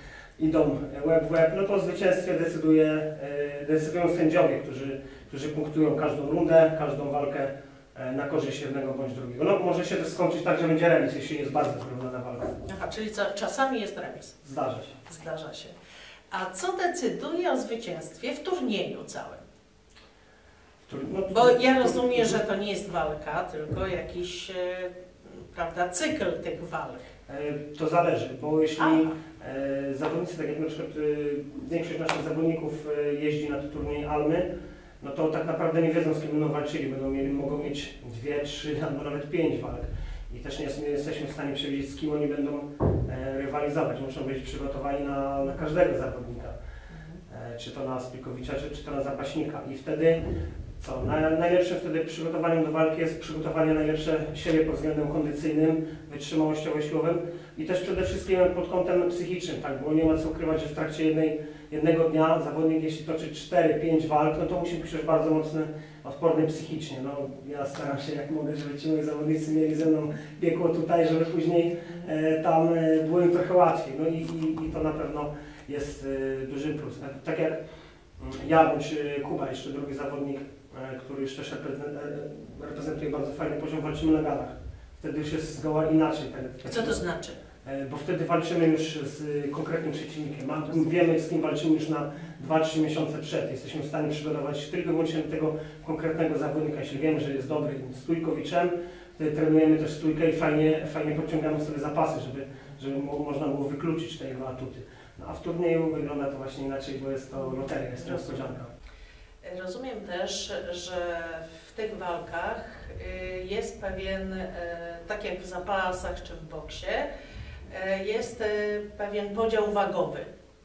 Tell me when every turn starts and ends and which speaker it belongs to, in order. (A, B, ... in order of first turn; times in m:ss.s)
0:00.4-0:12.6 A
0:12.7-0:14.4 B
0:14.4-0:15.0 A
0:15.1-0:15.8 B
0:16.3-0:19.4 B
0:20.8-0:22.4 A
0:21.3-0:27.1 B
0:27.3-0:46.6 A
0:28.8-0:29.1 B
0:46.9-0:47.2 B
0:47.3-0:50.3 A
0:50.8-1:17.6 A
1:18.2-1:27.0 A
1:26.7-1:27.4 B
1:27.6-1:48.7 A
1:48.0-1:48.5 B
1:49.4-1:57.1 B
1:57.7-2:00.3 B